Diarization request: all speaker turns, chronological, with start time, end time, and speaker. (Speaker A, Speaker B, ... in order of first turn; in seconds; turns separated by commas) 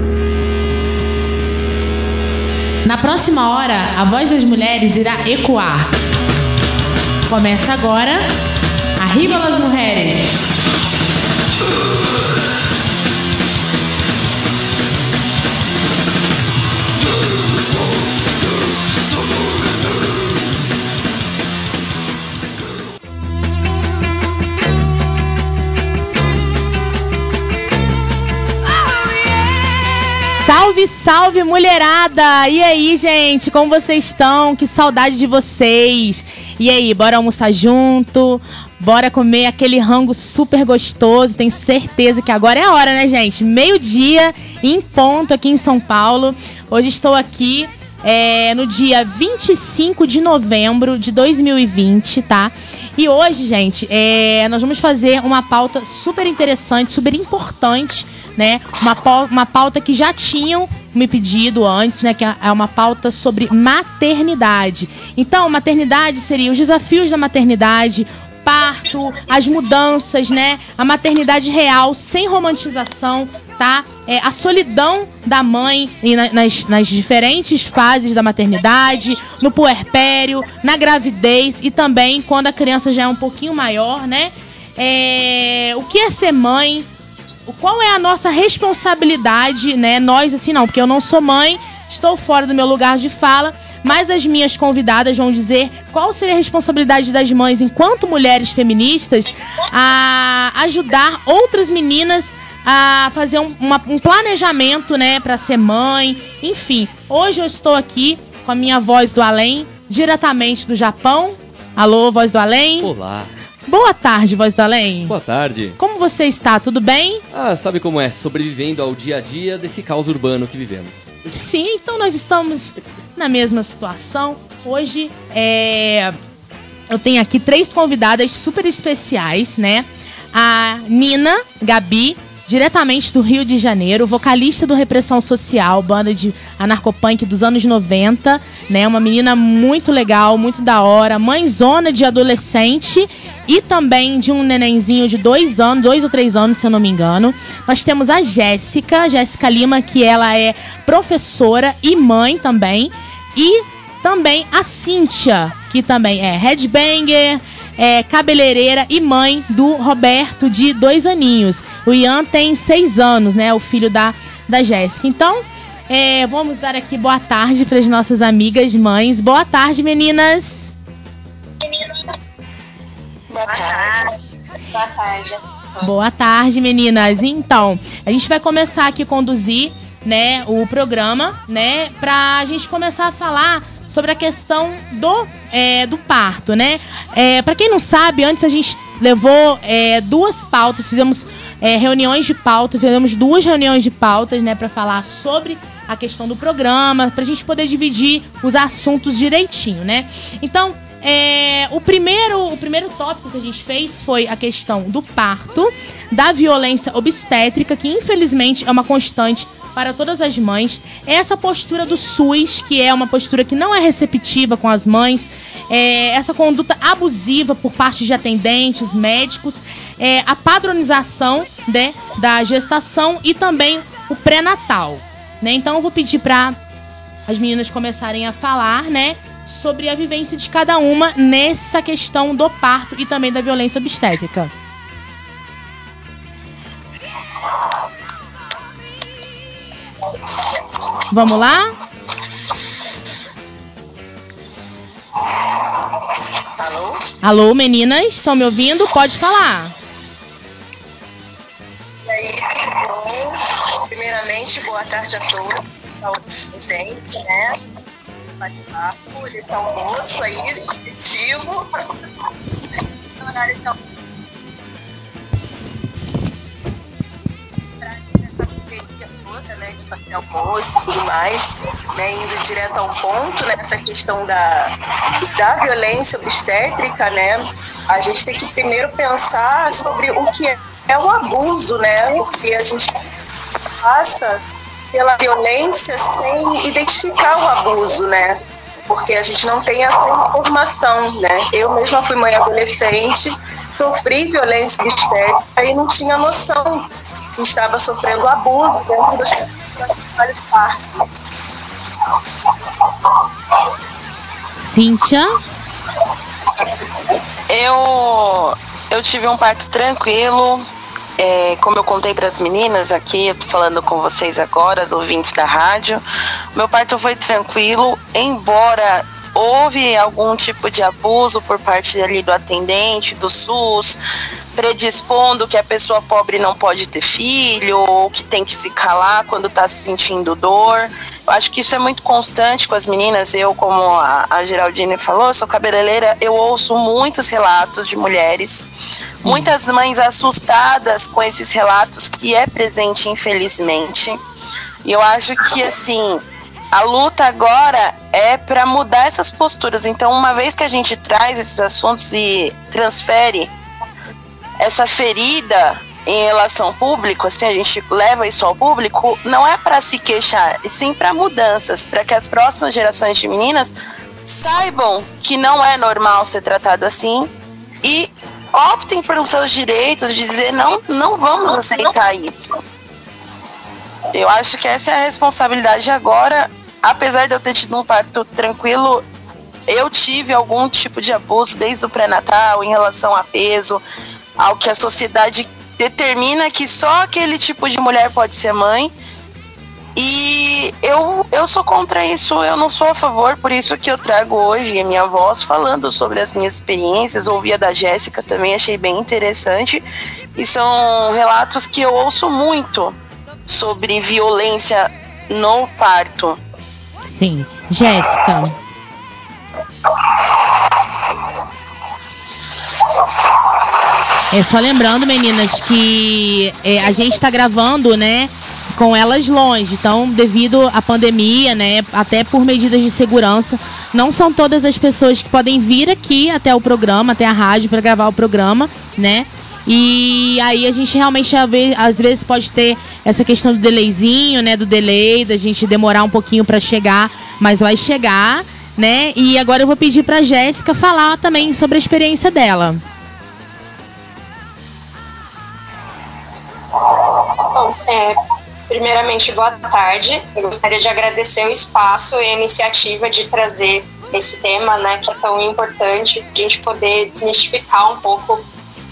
Speaker A: 2.8-5.9, Speaker A: 7.3-8.3, Speaker A: 9.0-10.4, Speaker A: 30.4-86.9, Speaker A: 87.5-112.9, Speaker B: 112.8-113.3, Speaker A: 113.7-115.2, Speaker B: 115.1-115.8, Speaker A: 115.8-117.2, Speaker B: 117.3-121.2, Speaker A: 121.3-126.2, Speaker A: 126.9-170.7, Speaker C: 173.3-174.0, Speaker D: 173.4-174.1, Speaker D: 174.7-175.9, Speaker A: 175.8-226.6, Speaker A: 227.3-234.5, Speaker A: 241.1-241.7, Speaker E: 245.6-246.0, Speaker E: 246.6-247.0, Speaker A: 247.2-249.7, Speaker E: 252.0-257.6, Speaker E: 258.4-261.6, Speaker E: 263.2-263.8, Speaker E: 267.8-274.7, Speaker E: 275.3-283.0, Speaker E: 283.8-284.4, Speaker E: 284.9-301.0, Speaker A: 304.6-305.4, Speaker C: 307.5-310.6, Speaker C: 311.2-316.0, Speaker C: 316.5-324.0, Speaker C: 324.5-338.6, Speaker A: 339.2-339.5, Speaker C: 339.2-344.2, Speaker C: 344.8-353.5, Speaker C: 354.6-363.7, Speaker C: 364.2-367.3, Speaker C: 367.8-372.6, Speaker C: 374.1-379.0, Speaker C: 379.7-383.8, Speaker C: 384.4-388.9, Speaker C: 389.9-399.8, Speaker C: 400.4-406.4, Speaker A: 407.0-408.6, Speaker A: 414.3-442.8, Speaker D: 447.2-448.2, Speaker D: 448.7-458.5